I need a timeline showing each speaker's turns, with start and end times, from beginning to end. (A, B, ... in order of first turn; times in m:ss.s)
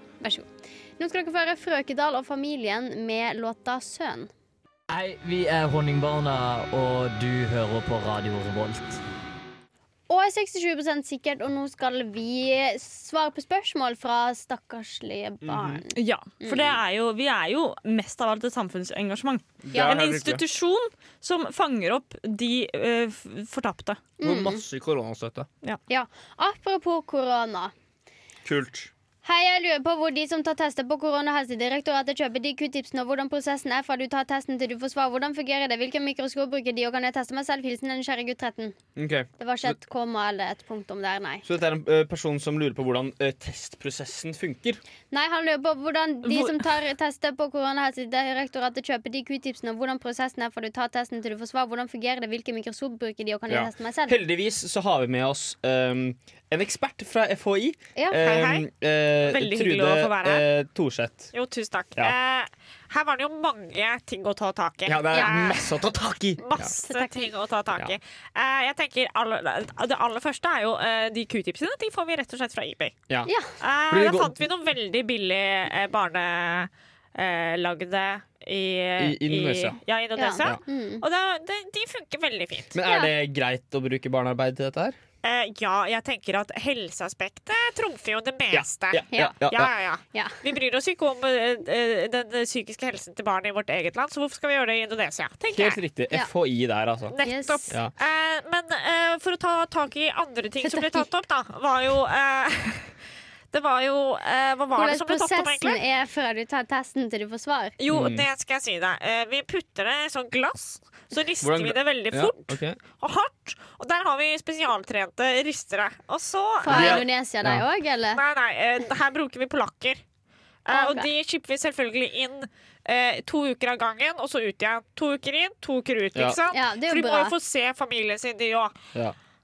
0:00.2-0:04.3 A
0:04.9-0:09.0 B
0:10.1-0:16.7 A
0:15.4-0:15.8 C
0:15.9-0:24.0 D
0:19.6-0:20.4 C
0:19.7-0:20.0 A
0:24.2-0:24.6 A
0:24.2-0:25.5 C
0:25.9-0:27.7 A
0:28.4-0:28.9 C
0:29.2-0:38.8 A
0:39.0-0:39.8 C
0:39.4-0:41.4 A
0:41.4-0:44.8 C
0:45.1-0:54.2 A
0:53.5-1:01.3 C
0:58.2-0:58.6 E
0:59.2-1:00.4 E
1:01.3-1:05.7 E
1:04.8-1:06.7 C
1:06.4-1:13.0 E
1:06.8-1:07.3 A
1:13.6-1:22.8 E
1:13.9-1:14.5 C
1:19.0-1:19.8 C
1:20.1-1:21.0 A
1:22.7-1:25.0 C
1:22.8-1:23.1 A
1:25.2-1:35.8 E
1:28.5-1:29.7 C
1:30.1-1:30.4 A
1:35.5-1:37.2 C
1:37.1-1:43.0 E
1:37.2-1:37.7 A
1:40.6-1:41.1 A
1:43.5-1:45.8 E
1:44.7-1:47.7 A
1:47.8-1:57.0 E
1:47.9-1:48.3 C
1:51.4-1:52.8 C
1:56.6-1:58.2 A
1:56.6-1:57.6 C
1:58.1-2:00.0 E
2:00.7-2:08.7 E
2:00.7-2:01.1 A
2:06.5-2:07.3 A